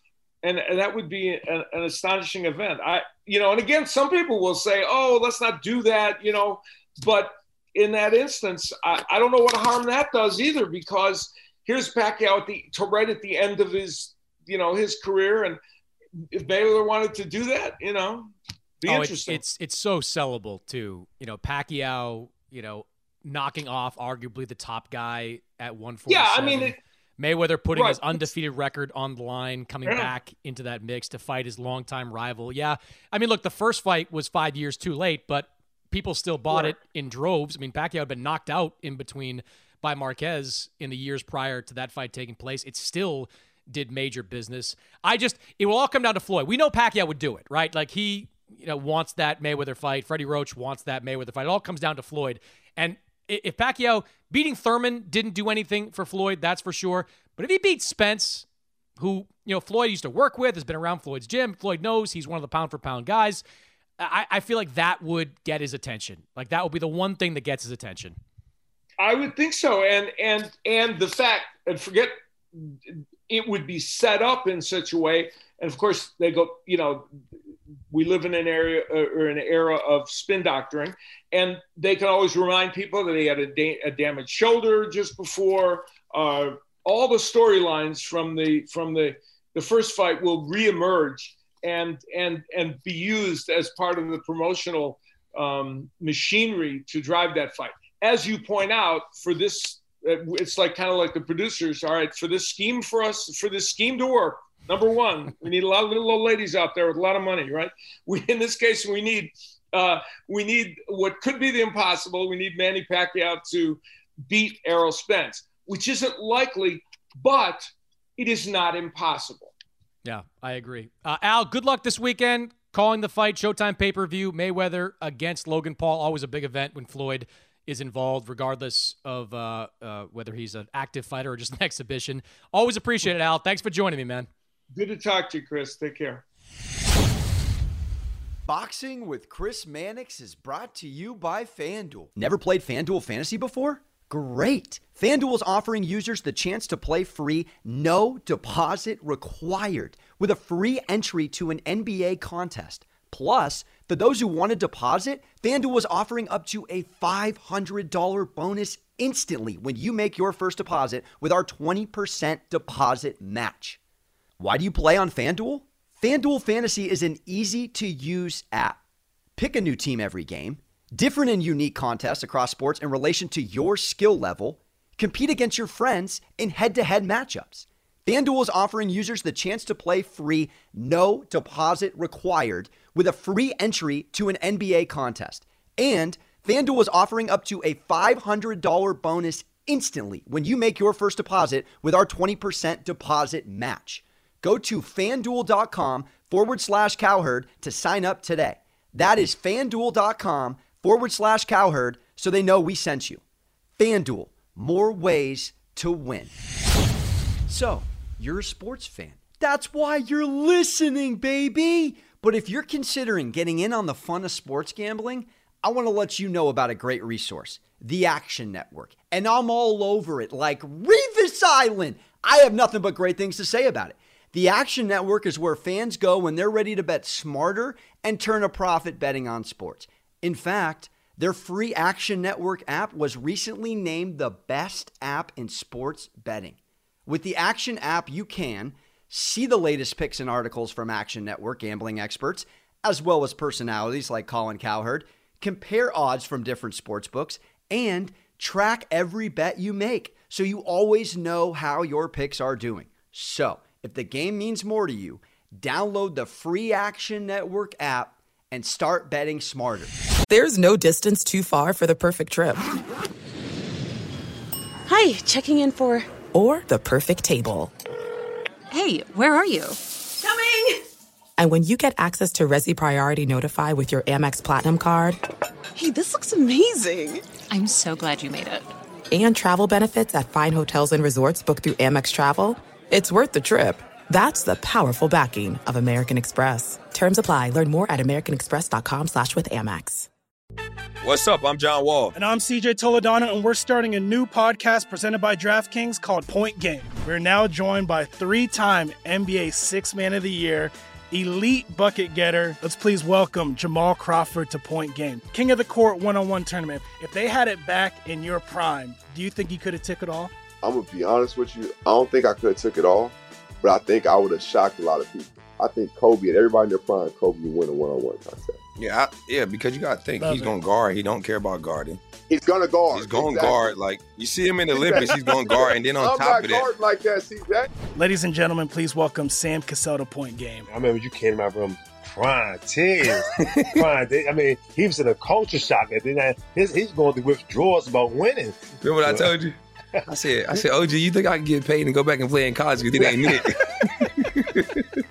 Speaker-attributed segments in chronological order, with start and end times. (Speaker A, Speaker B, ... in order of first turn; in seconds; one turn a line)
Speaker A: 0.4-15.6
Speaker A: 16.3-19.4
Speaker B: 18.9-58.5
Speaker A: 26.1-26.8
Speaker A: 27.7-28.2
Speaker A: 29.8-30.1
Speaker A: 36.5-36.7
Speaker B: 59.0-63.4
Speaker B: 64.0-68.2
Speaker A: 69.0-77.1
Speaker A: 77.9-119.5
Speaker B: 120.0-134.3
Speaker A: 134.7-136.2
Speaker C: 138.4-163.8
Speaker C: 164.4-168.8
Speaker C: 169.3-203.2
Speaker C: 203.8-206.3
Speaker C: 207.5-259.9
Speaker D: 260.3-262.6
Speaker E: 264.9-266.1
Speaker D: 266.3-267.7
Speaker E: 268.7-270.8
Speaker D: 271.4-275.2
Speaker E: 275.7-278.7
Speaker D: 279.1-290.1
Speaker F: 291.0-292.1
Speaker G: 292.1-310.3
Speaker H: 310.6-318.6
Speaker F: 318.8-322.0
Speaker G: 320.2-320.5
Speaker H: 322.3-323.7
Speaker F: 322.9-326.7
Speaker H: 324.7-325.2
Speaker H: 326.0-327.7
Speaker G: 327.9-330.7
Speaker I: 330.7-339.3
Speaker F: 333.4-333.8
Speaker F: 338.8-339.6
Speaker F: 340.1-344.8